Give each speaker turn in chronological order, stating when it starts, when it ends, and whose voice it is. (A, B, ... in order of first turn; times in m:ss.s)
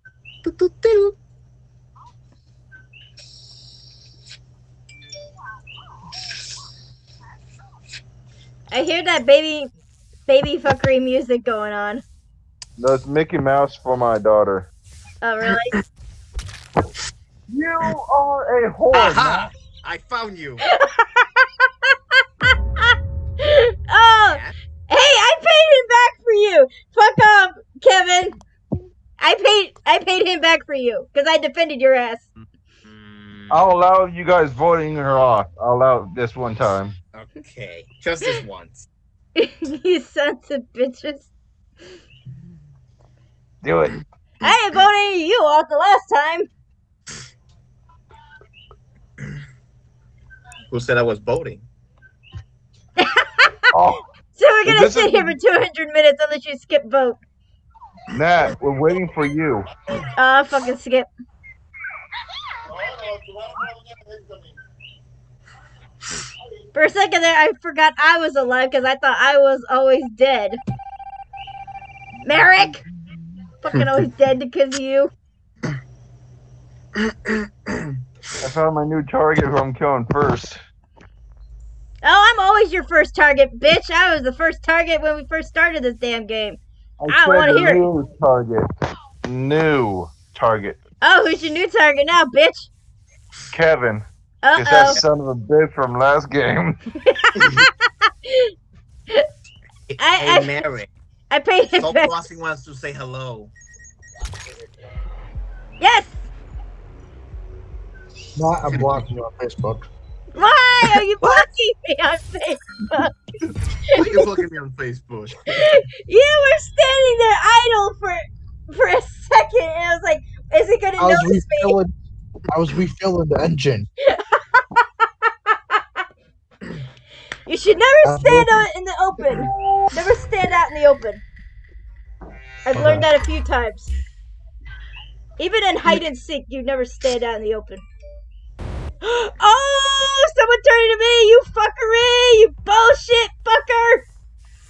0:00.4-0:01.1 A
0:08.7-0:09.7 B
0:10.2-0:12.0 B
0:12.8-0:14.7 C
0:15.2-0:15.8 B
0:17.5-0:19.5 C
0:18.9-0:20.6 A
0:20.6-0:28.4 B
0:24.2-0:24.5 A
0:29.2-0:32.3 B
0:32.8-0:33.8 A
0:33.5-0:37.0 C
0:37.1-0:38.9 A
0:39.4-0:41.3 B
0:43.6-0:44.0 C
0:44.4-0:46.5 B
0:50.7-0:51.6 A
0:53.0-0:53.5 B
0:53.7-0:54.0 C
0:54.3-0:57.2 B
0:54.6-0:55.3 C
0:58.1-0:59.7 C
1:00.1-1:01.1 B
1:06.7-1:10.6 B
1:12.2-1:12.8 B
1:13.6-1:15.1 B
1:17.0-1:17.9 A
1:18.4-1:20.6 C
1:22.0-1:27.8 B
1:27.0-1:28.7 C
1:29.2-1:30.8 C
1:31.0-1:32.7 B
1:33.5-1:36.8 C
1:34.4-1:35.0 B
1:37.1-1:38.5 B
1:39.9-1:40.9 A
1:40.0-1:40.6 B
1:41.3-1:42.1 B
1:41.7-1:43.5 A
1:45.8-1:46.2 B
1:48.4-1:49.9 D
1:50.3-1:53.1 B
1:50.9-1:51.4 A
1:53.9-1:55.7 A
1:55.5-2:01.8 B
2:01.0-2:01.9 D
2:02.5-2:03.9 D
2:04.0-2:04.8 B
2:07.4-2:11.2 B
2:08.0-2:08.6 D
2:12.6-2:13.9 B
2:12.7-2:13.1 D
2:15.4-2:17.8 B
2:19.0-2:24.0 B